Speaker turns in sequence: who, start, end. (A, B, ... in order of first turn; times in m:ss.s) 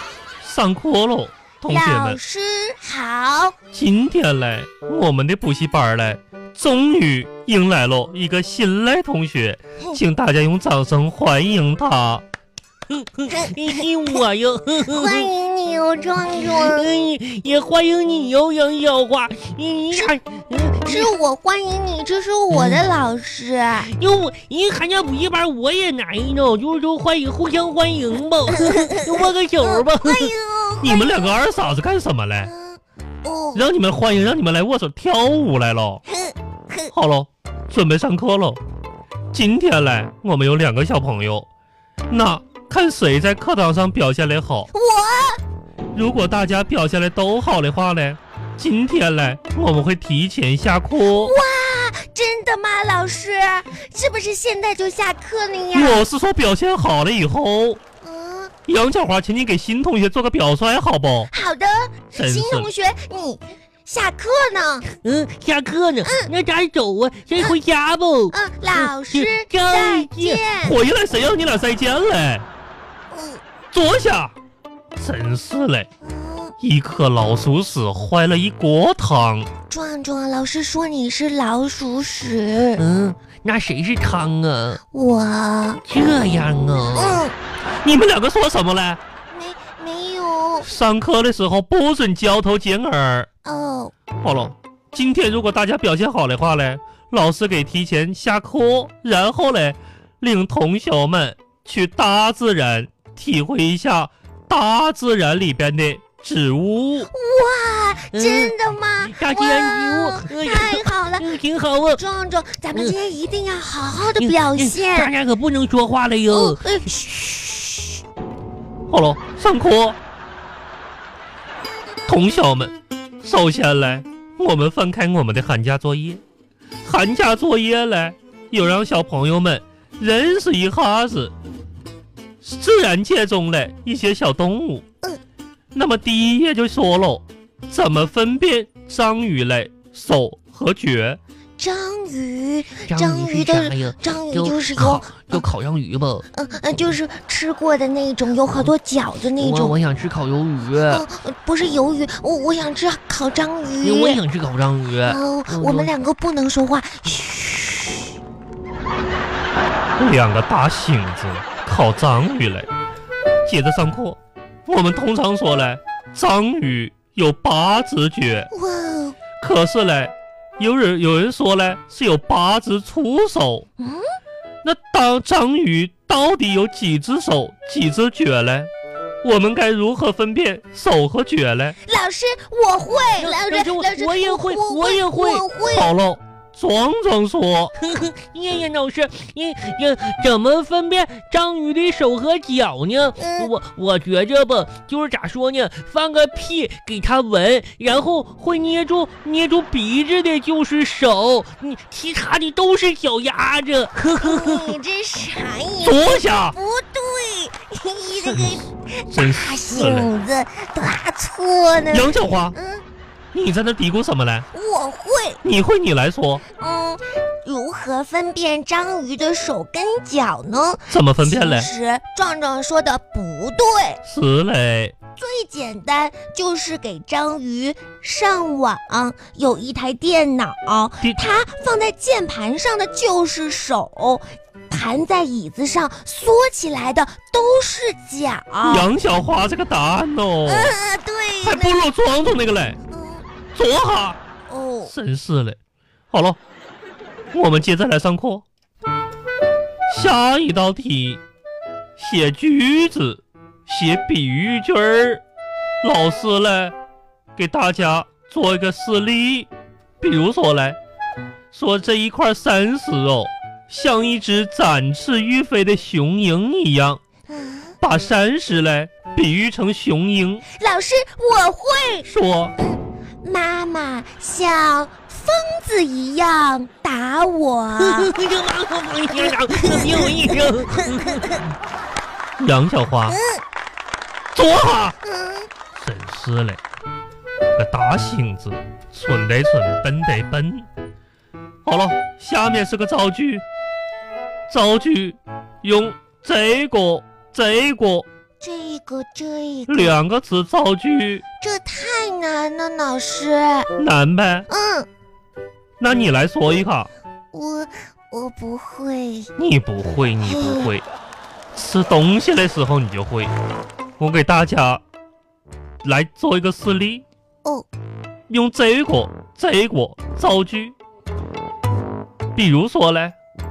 0:00.4-0:02.2 A
0:01.6-0:03.6 B
0:03.7-0:12.2 A
0:12.9-0:15.3 C
0:13.3-0:13.8 B
0:14.9-0:16.9 B
0:16.4-0:21.1 C
0:20.8-0:23.9 B
0:22.5-0:22.8 C
0:23.9-0:30.3 C
0:28.5-0:31.4 B
0:30.8-0:32.5 A
0:32.4-0:33.6 B
0:33.5-0:36.0 A
0:36.1-0:36.9 B
0:36.9-0:38.6 A
0:39.3-0:41.5 A
0:42.1-0:44.7 A
0:44.7-0:45.4 B
0:45.9-0:51.3 A
0:51.0-0:56.0 B
0:55.7-0:57.8 A
0:58.0-0:58.5 B
0:58.7-1:01.3 A
1:01.3-1:04.9 B
1:02.2-1:02.7 A
1:04.9-1:10.4 C
1:06.0-1:06.3 B
1:08.3-1:10.8 B
1:10.6-1:12.5 A
1:13.1-1:13.4 B
1:13.7-1:14.3 A
1:15.0-1:15.9 A
1:16.0-1:16.5 B
1:16.6-1:19.5 A
1:19.7-1:22.8 B
1:22.8-1:24.8 C
1:24.9-1:25.8 B
1:25.8-1:27.2 C
1:26.9-1:27.3 B
1:27.8-1:29.0 A
1:29.3-1:30.7 B
1:30.6-1:33.3 A
1:33.4-1:33.9 B
1:34.2-1:47.1 A
1:47.1-1:51.3 B
1:48.1-1:48.5 C
1:49.0-1:52.0 C
1:51.9-1:55.1 B
1:54.2-1:56.7 C
1:56.3-1:58.0 B
1:58.9-2:00.0 A
2:02.1-2:06.2 A
2:06.8-2:11.3 A
2:12.4-2:14.8 A
2:15.7-2:21.2 A
2:21.6-2:25.5 B
2:22.9-2:26.2 C
2:26.3-2:29.8 B
2:29.4-2:31.0 C
2:30.8-2:34.2 B
2:33.8-2:35.9 C
2:35.0-2:38.1 B
2:40.0-2:42.7 A
2:43.4-2:48.5 A
2:48.5-2:49.2 B
2:49.4-2:53.6 A
2:53.8-2:54.0 B
2:54.6-2:58.7 A
2:59.2-3:01.8 A
3:01.8-3:05.9 B
3:03.2-3:05.4 C
3:05.7-3:07.7 A
3:07.8-3:24.8 C
3:13.2-3:13.5 B
3:24.2-3:32.8 B
3:25.8-3:26.6 A
3:28.2-3:28.6 A
3:29.1-3:30.1 A
3:31.9-3:32.5 A
3:33.3-3:34.4 A
3:34.5-3:35.4 B
3:35.4-3:36.4 A
3:36.6-3:44.0 B
3:40.9-3:41.7 A
3:44.0-3:44.9 A
3:45.2-3:58.9 B
3:58.6-4:00.7 A
4:00.4-4:01.9 B
4:01.4-4:02.8 A
4:02.9-4:03.2 B
4:03.5-4:04.2 A
4:04.5-4:04.9 B
4:04.8-4:05.6 A
4:06.1-4:06.4 A
4:07.3-4:08.4 A
4:09.9-4:11.2 A
4:12.0-4:15.2 A
4:15.8-4:16.7 A
4:17.4-4:19.5 A
4:20.0-4:20.8 A
4:21.5-4:27.0 A
4:27.3-4:27.8 B
4:27.8-4:30.4 A
4:30.5-4:32.1 B
4:32.0-4:32.5 A
4:32.6-4:38.1 B
4:37.8-4:41.4 C
4:39.2-4:41.3 B
4:42.4-4:43.2 A
4:43.1-4:43.4 B
4:44.3-4:45.0 A
4:45.0-4:45.5 B
4:45.7-4:46.6 A
4:47.6-4:50.7 A
4:51.6-4:53.4 A
4:54.5-4:58.0 A
4:58.4-5:00.0 B
4:59.7-5:01.2 A
5:01.4-5:03.7 B
5:03.8-5:04.5 A
5:04.5-5:04.9 B
5:05.8-5:06.9 A
5:07.3-5:09.3 B
5:09.4-5:10.8 A
5:10.2-5:10.7 B
5:11.5-5:13.3 A
5:14.0-5:14.8 A
5:15.8-5:17.0 A
5:18.3-5:20.8 A
5:22.3-5:23.1 A